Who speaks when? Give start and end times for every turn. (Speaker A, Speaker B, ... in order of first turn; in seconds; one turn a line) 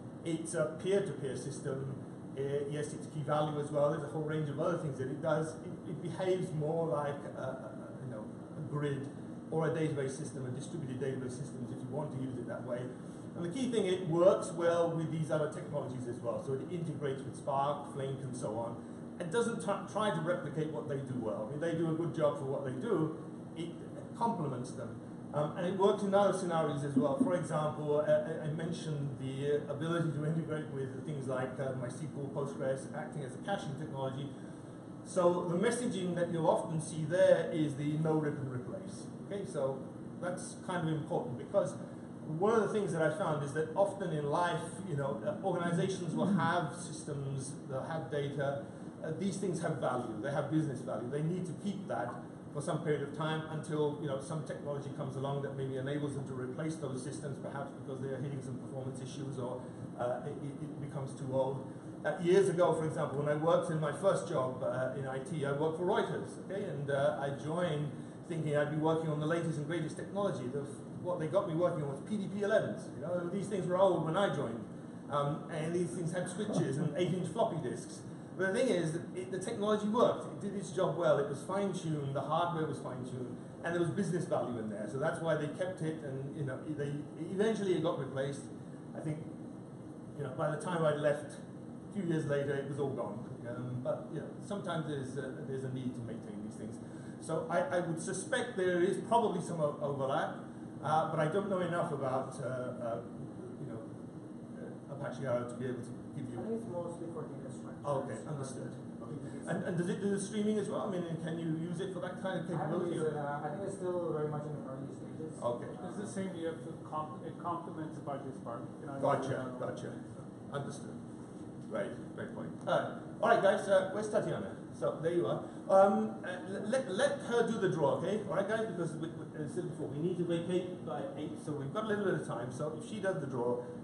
Speaker A: 0.2-34.3
Speaker A: 35.0-89.3
Speaker A: 90.2-103.9
Speaker A: 104.6-106.5
Speaker B: 106.3-109.7
Speaker A: 107.8-113.2
Speaker B: 112.5-115.7
Speaker A: 115.4-115.8
Speaker C: 115.8-119.7
Speaker A: 119.0-121.0
Speaker A: 121.7-133.6